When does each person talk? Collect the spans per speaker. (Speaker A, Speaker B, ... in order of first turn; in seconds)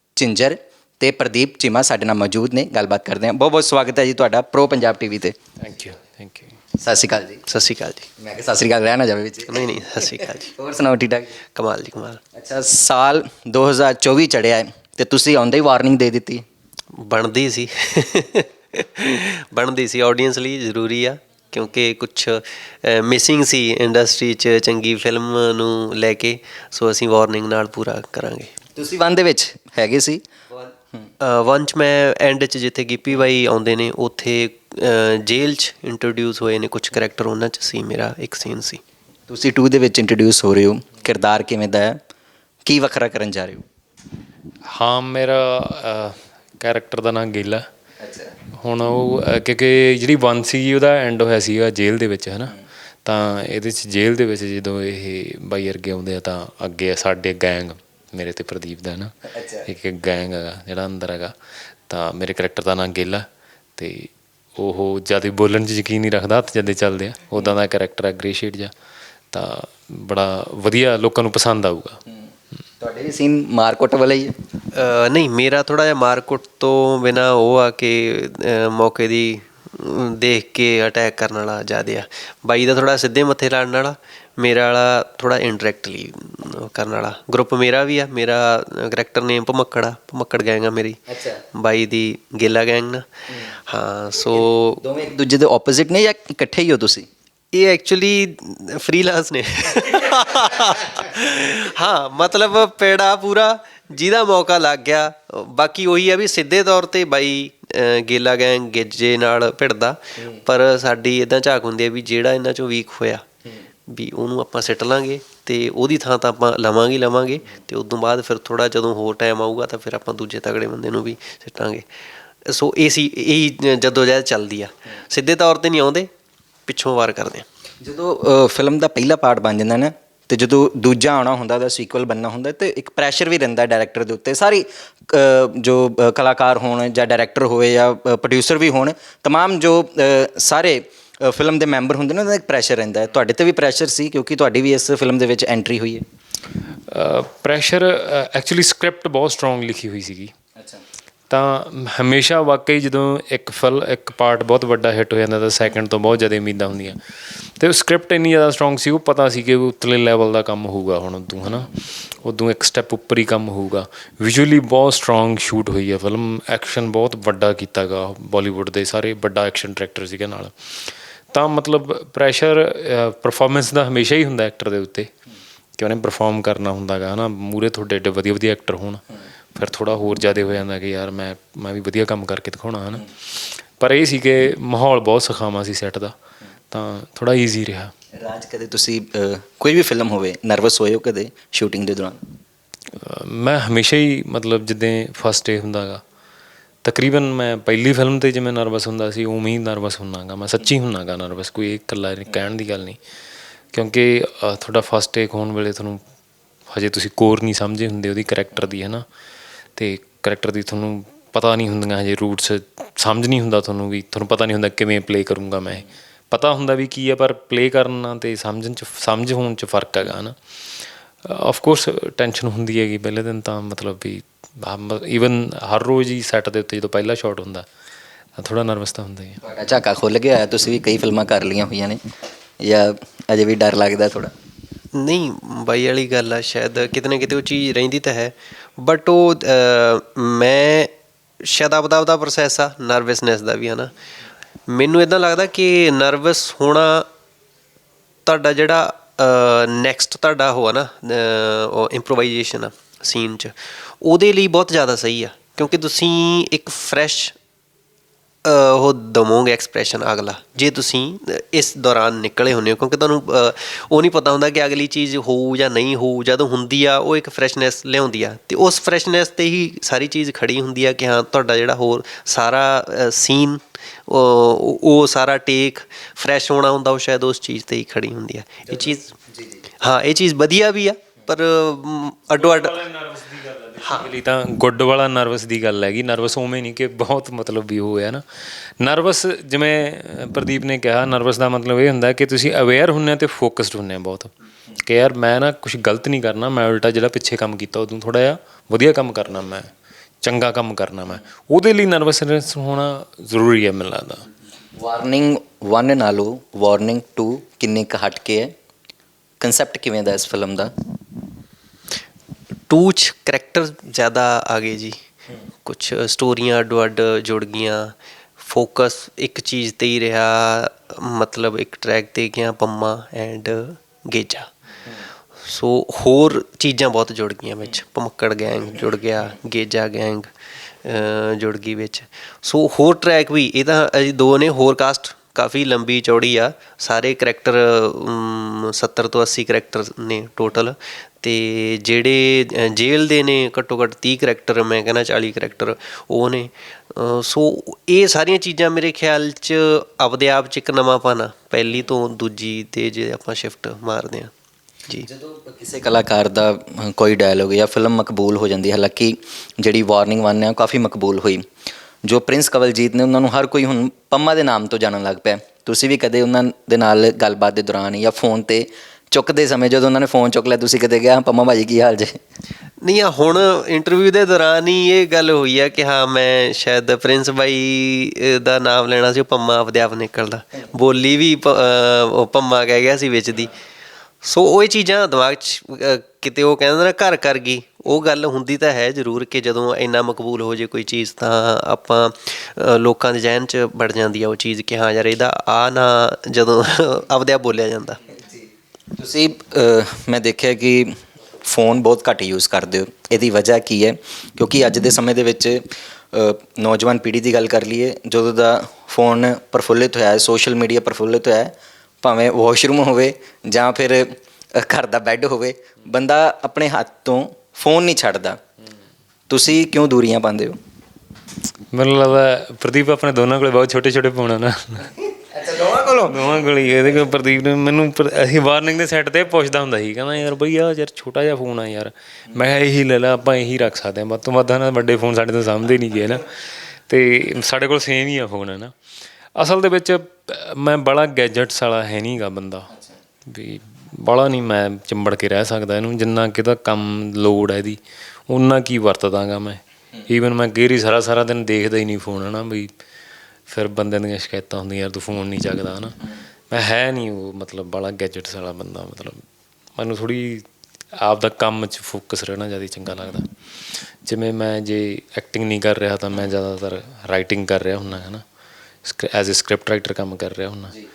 Speaker A: 0.2-5.3, 6.8-7.4, 8.2-11.4, 12.3-16.4, 28.8-30.2, 39.3-42.0, 42.6-43.6, 48.0-48.3, 59.3-59.6, 72.1-74.3, 91.1-91.4, 93.3-93.5, 94.8-97.1, 127.8-146.0, 150.6-150.8, 188.2-192.2, 229.4-232.0, 232.6-234.3, 279.3-279.6, 304.8-308.5, 309.4-310.7, 355.0-361.4, 362.1-372.2, 398.1-418.4, 419.3-420.6, 425.3-426.1
Speaker B: 5.6-6.5, 44.7-47.6, 48.6-52.5, 53.0-61.3, 61.9-63.2, 63.8-68.7, 69.3-72.0, 146.9-150.3, 151.3-175.1, 175.8-179.0, 179.6-186.1, 186.7-187.9, 193.0-196.0, 196.8-203.0, 203.7-206.0, 206.7-209.1, 209.8-220.4, 221.2-227.7, 228.4-229.4, 282.4-299.7, 300.2-304.2, 421.7-438.7, 439.4-442.7, 443.3-447.8, 448.3-452.7, 453.5-459.2, 459.8-460.5, 461.0-468.2, 468.9-470.8
Speaker C: 7.5-8.1, 9.5-10.5, 11.6-12.2, 17.0-28.5, 31.2-38.8, 74.8-91.0, 91.6-94.8, 97.5-113.2, 113.9-121.9, 122.5-126.1, 126.7-127.4, 234.9-243.9, 244.7-247.1, 248.2-257.4, 258.4-279.1, 279.8-282.8, 283.8-284.1, 312.7-315.0, 315.6-324.5, 325.4-330.3, 330.8-354.3, 372.8-383.6, 384.2-398.0